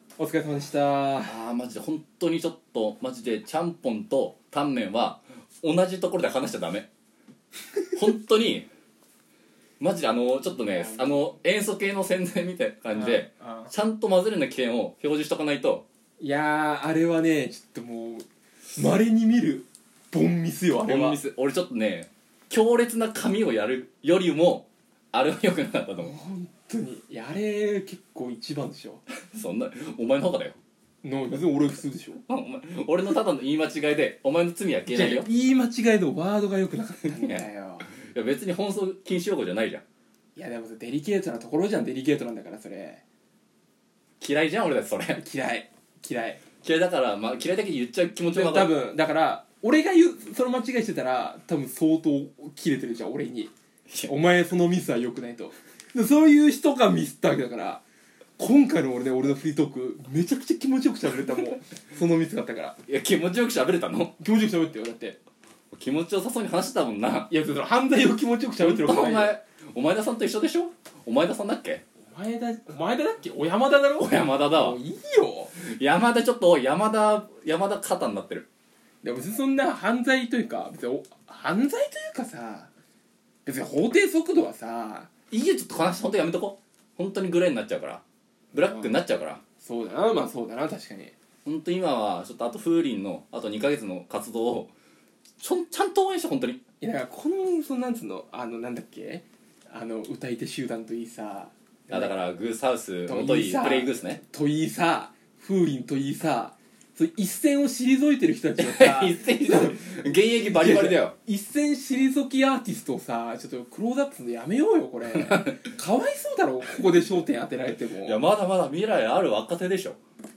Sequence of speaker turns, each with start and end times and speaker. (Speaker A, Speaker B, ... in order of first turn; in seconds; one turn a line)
Speaker A: 0.2-1.4
Speaker B: 1.2-6.9
Speaker B: 7.9-8.7
Speaker B: 9.8-15.8
Speaker A: 10.8-11.3
Speaker A: 12.9-13.7
Speaker A: 16.2-21.2
Speaker B: 20.8-26.2
Speaker A: 26.0-29.0
Speaker B: 29.3-30.6
Speaker A: 31.0-32.2
Speaker B: 32.3-35.3
Speaker A: 34.9-37.9
Speaker B: 37.0-39.8
Speaker A: 40.4-43.0
Speaker B: 44.2-45.2
Speaker A: 45.1-46.4
Speaker B: 46.6-48.7
Speaker A: 48.3-53.5
Speaker A: 54.0-57.8
Speaker A: 58.4-62.8
Speaker B: 62.9-64.1
Speaker A: 64.2-65.2
Speaker B: 65.7-67.3
Speaker A: 67.3-69.3
Speaker B: 68.6-71.8
Speaker A: 72.1-75.5
Speaker B: 74.0-74.8
Speaker B: 75.5-78.5
Speaker A: 79.0-82.7
Speaker A: 83.4-85.1
Speaker B: 85.3-88.0
Speaker B: 88.5-89.4
Speaker A: 88.6-89.0
Speaker A: 89.6-91.1
Speaker B: 91.4-94.7
Speaker B: 95.4-96.6
Speaker A: 96.8-102.1
Speaker B: 101.9-104.2
Speaker A: 103.1-109.8
Speaker B: 108.6-111.1
Speaker A: 110.4-118.2
Speaker B: 118.0-120.0